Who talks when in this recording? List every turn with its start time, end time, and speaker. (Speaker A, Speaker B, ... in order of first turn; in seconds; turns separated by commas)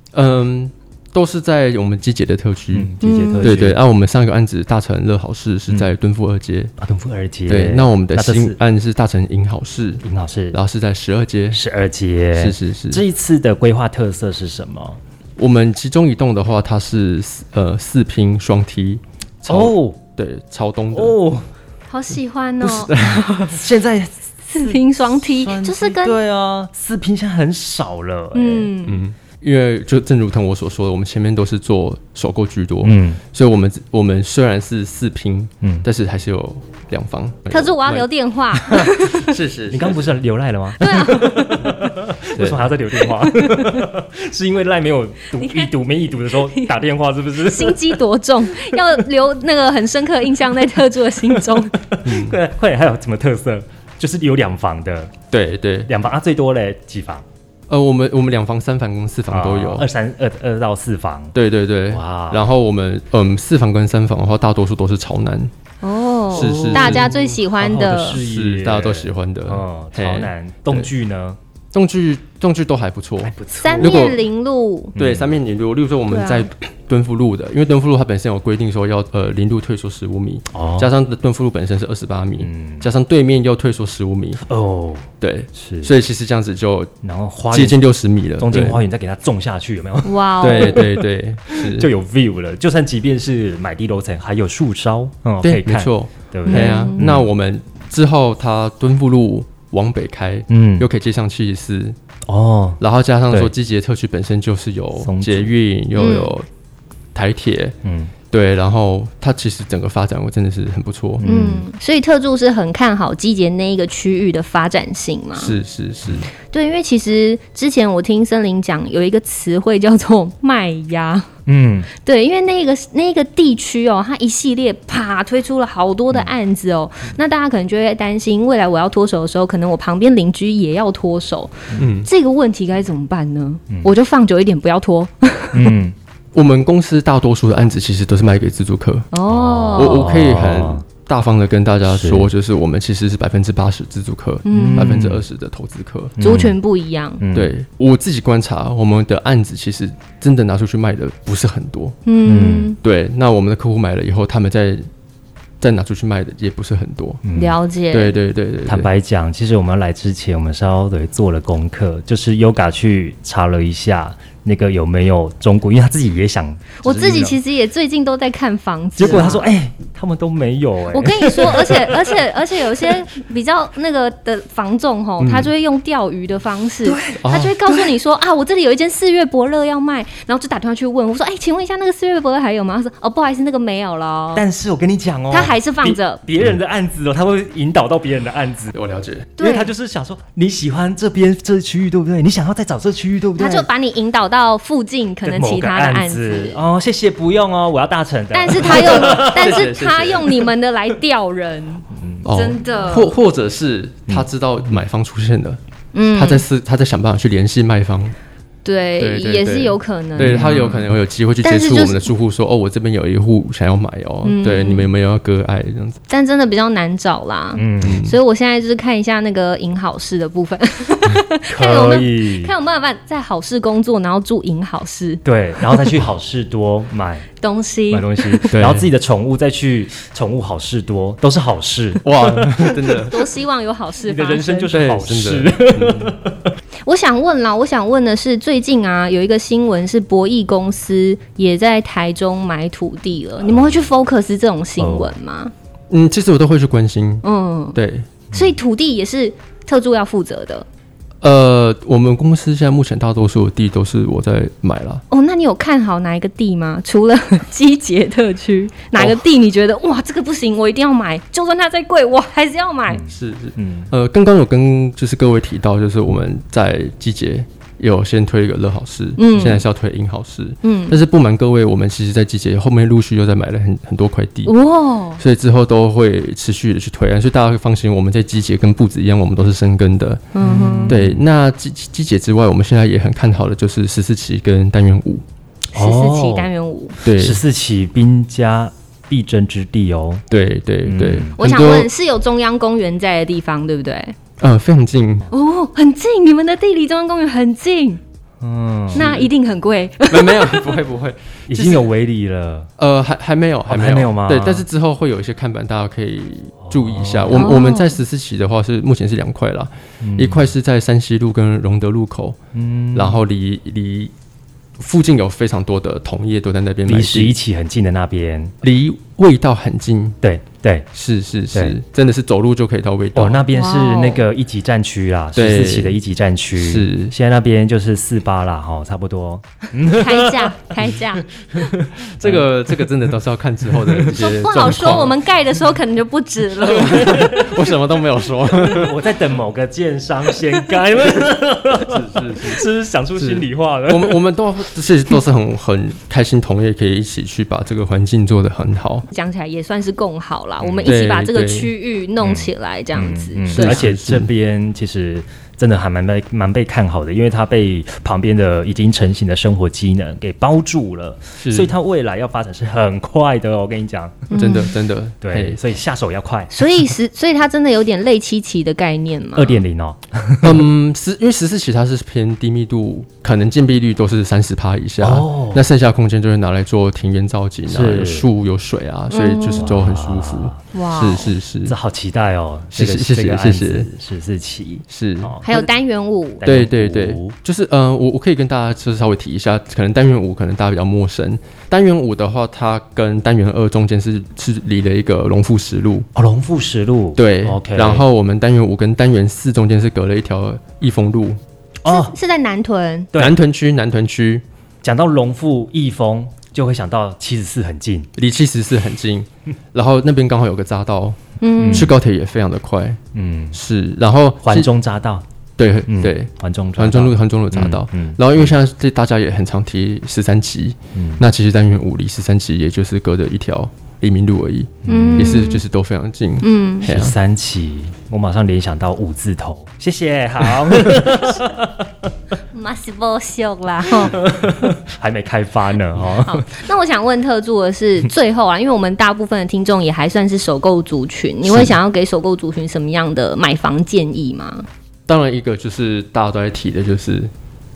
Speaker A: 0.1-6.7, Speaker B: 2.7-3.8, Speaker C: 3.0-3.5, Speaker B: 6.8-8.6, Speaker A: 7.5-11.6, Speaker B: 10.0-10.6, Speaker B: 11.5-15.0, Speaker A: 12.3-13.0, Speaker A: 15.4-21.2, Speaker B: 19.5-20.0, Speaker B: 20.9-21.5, Speaker C: 21.9-23.6, Speaker A: 22.6-23.3, Speaker B: 23.4-28.7, Speaker C: 24.5-26.2, Speaker C: 28.3-29.0, Speaker A: 28.9-38.1, Speaker B: 32.8-33.2, Speaker C: 37.5-39.4, Speaker A: 38.7-40.1, Speaker B: 39.7-48.0, Speaker C: 40.8-41.8, Speaker A: 42.3-42.7, Speaker C: 43.0-43.9, Speaker C: 45.4-45.7, Speaker C: 46.2-46.8, Speaker C: 47.4-51.8, Speaker B: 51.3-55.1, Speaker A: 52.0-52.4, Speaker A: 55.3-55.9, Speaker B: 55.9-57.2, Speaker A: 57.7-59.9, Speaker B: 59.3-61.4, Speaker A: 61.3-65.5, Speaker B: 61.9-62.5, Speaker C: 65.8-68.2, Speaker A: 66.3-67.1, Speaker B: 66.3-71.4, Speaker A: 68.1-70.9, Speaker A: 71.7-74.2, Speaker B: 73.2-74.1, Speaker C: 73.6-75.0, Speaker B: 75.0-75.4, Speaker A: 75.0-84.5, Speaker C: 76.1-76.5, Speaker B: 80.5-80.9, Speaker B: 82.4-82.9, Speaker B: 84.5-85.9, Speaker A: 85.2-86.9, Speaker B: 87.0-87.8, Speaker A: 87.5-88.8, Speaker B: 88.4-97.3, Speaker C: 90.0-90.9, Speaker A: 90.4-91.9, Speaker A: 95.4-102.0, Speaker C: 96.5-97.1, Speaker B: 100.5-100.9, Speaker B: 102.3-103.5, Speaker A: 102.8-106.5, Speaker B: 105.0-105.5, Speaker C: 106.0-106.3, Speaker A: 107.1-107.8, Speaker B: 107.8-108.1, Speaker A: 108.3-111.2, Speaker B: 111.2-111.7, Speaker C: 111.2-115.6, Speaker A: 115.4-116.3, Speaker C: 116.4-121.3, Speaker B: 121.5-121.9, Speaker C: 121.9-135.8, Speaker A: 131.8-132.1, Speaker B: 135.5-135.9, Speaker A: 136.3-139.1, Speaker C: 139.1-140.1, Speaker B: 139.3-140.9, Speaker A: 139.7-146.2, Speaker B: 141.9-142.3, Speaker C: 144.5-145.0, Speaker B: 144.5-145.2, Speaker B: 146.2-146.6, Speaker C: 146.2-147.2, Speaker B: 147.2-147.5, Speaker A: 147.3-152.0, Speaker C: 152.1-152.8, Speaker B: 152.2-152.8, Speaker A: 152.8-154.9, Speaker A: 155.6-157.2, Speaker B: 157.2-157.6, Speaker C: 157.3-158.2, Speaker A: 157.9-158.9, Speaker B: 158.7-167.4, Speaker C: 166.8-169.5, Speaker B: 169.0-172.2, Speaker C: 170.9-184.4, Speaker A: 175.2-175.5, Speaker B: 176.8-177.9, Speaker A: 177.2-177.6, Speaker B: 184.3-188.7, Speaker C: 185.3-186.2, Speaker A: 188.7-189.3, Speaker C: 189.4-189.7, Speaker B: 189.4-193.7, Speaker C: 193.4-196.6, Speaker B: 195.2-199.7, Speaker C: 198.3-203.2, Speaker A: 198.8-200.5, Speaker B: 201.9-202.3, Speaker A: 202.2-205.6, Speaker C: 205.9-206.4, Speaker A: 206.1-208.2, Speaker C: 208.7-210.9, Speaker A: 209.0-216.0, Speaker B: 210.2-210.9, Speaker C: 211.4-212.0, Speaker C: 214.2-214.9, Speaker C: 216.1-225.8, Speaker B: 217.6-218.1, Speaker A: 217.8-218.2, Speaker B: 221.5-222.5, Speaker B: 225.2-227.3, Speaker C: 227.4-228.6, Speaker B: 227.9-233.1, Speaker A: 228.5-228.9, Speaker A: 232.0-233.2, Speaker C: 232.9-234.7, Speaker B: 234.1-236.5, Speaker A: 234.7-236.1, Speaker C: 236.9-245.5, Speaker B: 243.5-243.8, Speaker B: 244.8-245.1, Speaker A: 245.9-248.2, Speaker C: 247.2-247.8, Speaker C: 248.3-250.7, Speaker A: 251.2-255.0, Speaker C: 255.1-263.0, Speaker A: 259.0-259.2, Speaker B: 262.9-263.9, Speaker A: 263.1-274.5, Speaker C: 269.2-269.6, Speaker C: 270.6-271.0, Speaker C: 274.5-275.2, Speaker A: 275.2-280.2, Speaker C: 280.3-281.0, Speaker B: 280.4-281.2, Speaker A: 280.9-285.2, Speaker B: 285.7-286.5, Speaker C: 285.7-287.0, Speaker A: 287.0-287.4, Speaker B: 287.0-290.2, Speaker A: 290.3-291.9, Speaker B: 290.9-291.4, Speaker C: 291.4-294.1, Speaker A: 294.4-295.3, Speaker C: 295.3-298.0, Speaker B: 298.4-299.1, Speaker C: 298.9-300.8, Speaker A: 298.9-299.3, Speaker A: 300.1-301.9, Speaker B: 301.5-302.7, Speaker A: 302.8-312.4, Speaker B: 303.7-304.6, Speaker B: 306.6-307.5, Speaker C: 307.3-308.0, Speaker B: 310.0-310.5, Speaker B: 312.5-313.2, Speaker A: 312.9-314.1, Speaker A: 314.8-317.4, Speaker B: 316.9-318.6, Speaker A: 318.6-320.2, Speaker B: 320.2-320.9, Speaker A: 320.9-323.4, Speaker B: 323.1-332.5, Speaker C: 323.5-324.2, Speaker A: 325.4-326.0, Speaker A: 326.6-327.1, Speaker C: 329.9-331.8, Speaker A: 332.0-335.2, Speaker B: 333.7-334.1, Speaker C: 334.1-337.3, Speaker A: 336.6-339.0, Speaker B: 336.7-337.7, Speaker B: 338.5-344.2, Speaker A: 341.8-349.1, Speaker C: 349.1-353.9, Speaker B: 350.6-350.9, Speaker A: 350.9-351.7, Speaker B: 352.2-364.4, Speaker A: 353.5-354.3, Speaker A: 361.4-361.7, Speaker C: 364.3-364.8, Speaker A: 364.3-365.6, Speaker B: 365.2-366.8, Speaker C: 366.5-369.6, Speaker B: 369.4-370.6, Speaker A: 370.4-381.8, Speaker B: 375.0-375.6, Speaker B: 377.7-378.3, Speaker C: 379.1-379.7, Speaker B: 379.6-380.6, Speaker C: 380.7-381.3, Speaker B: 381.6-385.7, Speaker A: 382.8-383.9, Speaker A: 384.9-385.4, Speaker C: 385.4-386.4, Speaker B: 386.4-387.4, Speaker A: 386.4-396.1, Speaker B: 396.1-398.1, Speaker A: 397.2-401.4, Speaker B: 401.9-402.1, Speaker C: 401.9-403.1, Speaker B: 403.1-403.4, Speaker A: 403.1-404.4, Speaker B: 404.8-408.1, Speaker A: 408.2-413.0, Speaker C: 411.4-411.9, Speaker B: 411.6-411.9, Speaker B: 413.1-413.6, Speaker A: 413.5-414.7, Speaker B: 414.4-415.2, Speaker A: 415.6-427.2, Speaker B: 415.9-418.5, Speaker B: 420.9-421.2, Speaker B: 424.8-425.5, Speaker C: 424.9-425.6, Speaker C: 426.4-426.9, Speaker B: 426.8-432.1, Speaker C: 432.5-434.2, Speaker B: 433.9-436.5, Speaker C: 436.2-444.7, Speaker A: 445.1-447.3